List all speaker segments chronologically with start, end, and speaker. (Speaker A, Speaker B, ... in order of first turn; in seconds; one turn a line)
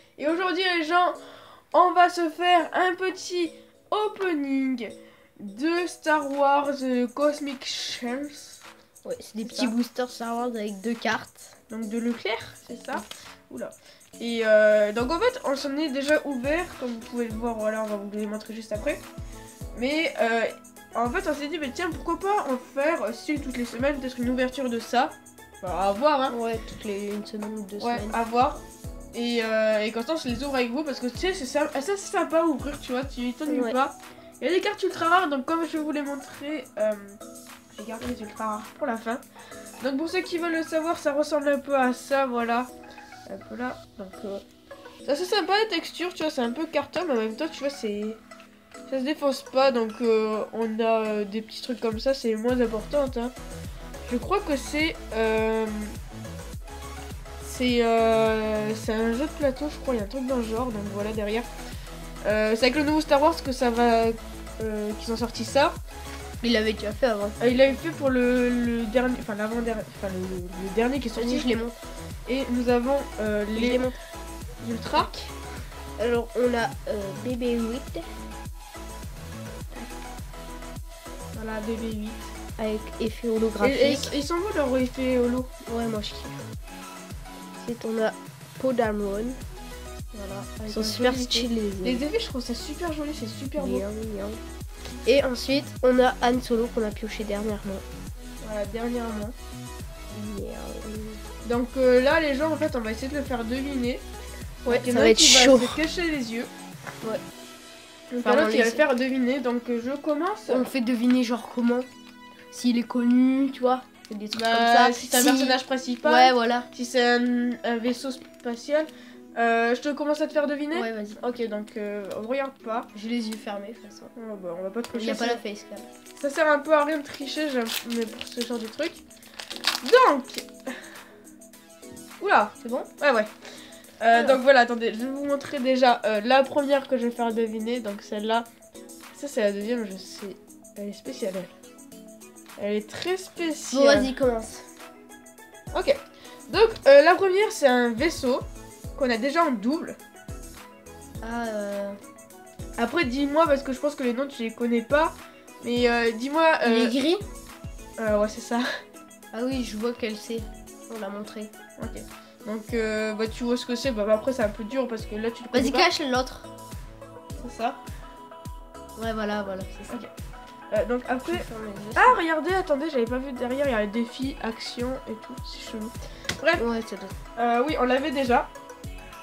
Speaker A: 0.2-1.2
Speaker A: 1.7-8.6
Speaker B: 9.0-11.5
Speaker A: 9.4-9.7
Speaker A: 11.7-19.0
Speaker A: 19.7-26.3
Speaker B: 26.3-28.2
Speaker A: 27.8-37.2
Speaker B: 33.5-33.8
Speaker A: 37.7-39.2
Speaker A: 39.8-42.7
Speaker A: 43.3-44.4
Speaker A: 45.0-48.2
Speaker A: 48.9-53.3
Speaker A: 54.0-56.0
Speaker A: 57.4-61.5
Speaker A: 62.2-65.8
Speaker B: 66.4-67.8
Speaker A: 67.4-71.5
Speaker B: 71.2-71.8
Speaker A: 72.2-73.8
Speaker B: 73.5-74.0
Speaker A: 74.6-75.1
Speaker B: 74.9-75.3
Speaker B: 76.0-78.1
Speaker A: 81.3-82.3
Speaker B: 82.6-84.1
Speaker A: 83.6-85.5
Speaker B: 85.7-86.4
Speaker B: 87.6-89.4
Speaker A: 90.1-93.8
Speaker B: 90.7-92.0
Speaker B: 93.5-94.4
Speaker B: 95.0-97.8
Speaker A: 98.4-99.3
Speaker B: 100.1-101.2
Speaker A: 101.4-104.0
Speaker B: 104.6-105.8
Speaker A: 104.7-106.5
Speaker A: 108.1-110.7
Speaker B: 108.2-108.8
Speaker B: 110.5-111.9
Speaker B: 112.5-116.7
Speaker A: 114.3-122.9
Speaker B: 120.7-121.2
Speaker B: 122.9-124.1
Speaker A: 124.2-125.4
Speaker B: 124.9-125.9
Speaker A: 126.2-129.0
Speaker A: 129.8-130.5
Speaker A: 132.2-133.3
Speaker B: 132.6-132.9
Speaker A: 134.0-138.5
Speaker B: 134.1-134.4
Speaker A: 139.1-141.5
Speaker A: 142.6-144.1
Speaker B: 143.7-144.7
Speaker A: 145.7-148.4
Speaker A: 148.9-150.0
Speaker B: 151.2-152.0
Speaker A: 152.8-156.9
Speaker B: 156.6-157.2
Speaker A: 158.0-158.7
Speaker B: 159.3-161.5
Speaker A: 161.8-165.9
Speaker B: 165.5-166.5
Speaker A: 167.4-167.8
Speaker B: 169.0-170.0
Speaker A: 170.7-176.6
Speaker B: 171.2-172.2
Speaker B: 176.6-177.1
Speaker A: 177.3-178.5